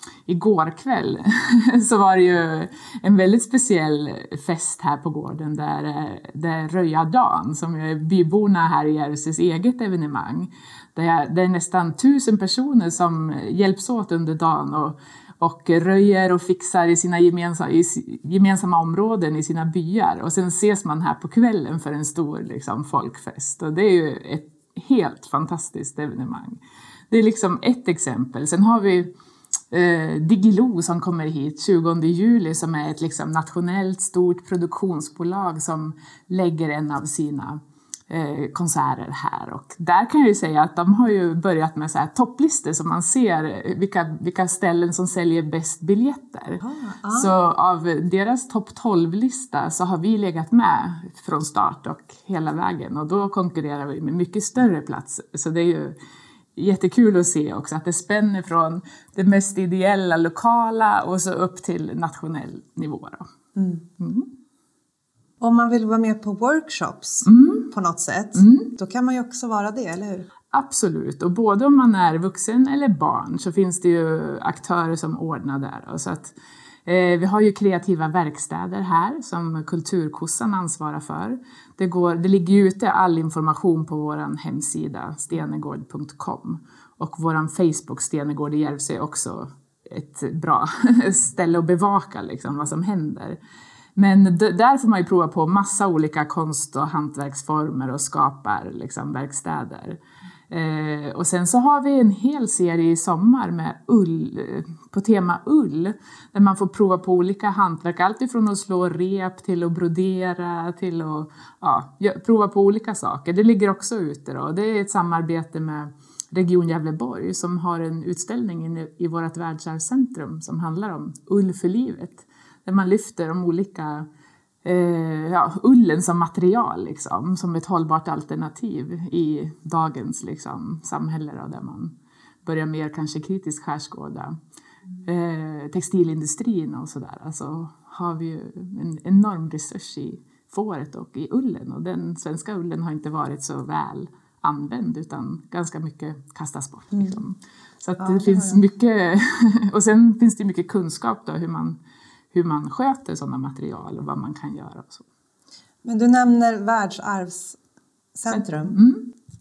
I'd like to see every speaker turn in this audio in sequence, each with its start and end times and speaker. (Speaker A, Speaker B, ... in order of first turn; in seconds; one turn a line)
Speaker A: 0.3-26.6
Speaker A: 27.1-29.1
Speaker A: 29.7-56.0
Speaker B: 46.6-47.3
Speaker A: 56.5-63.3
Speaker B: 63.6-63.8
Speaker A: 64.0-64.3
Speaker B: 65.4-70.3
Speaker A: 67.2-67.7
Speaker A: 68.3-68.7
Speaker A: 70.5-76.3
Speaker A: 76.8-93.4
Speaker A: 94.0-124.1
Speaker A: 124.6-131.9
Speaker A: 132.4-134.4
Speaker A: 135.1-151.8
Speaker B: 148.0-148.6
Speaker A: 152.3-155.1
Speaker B: 155.8-157.6
Speaker B: 158.2-158.8
Speaker A: 158.3-159.1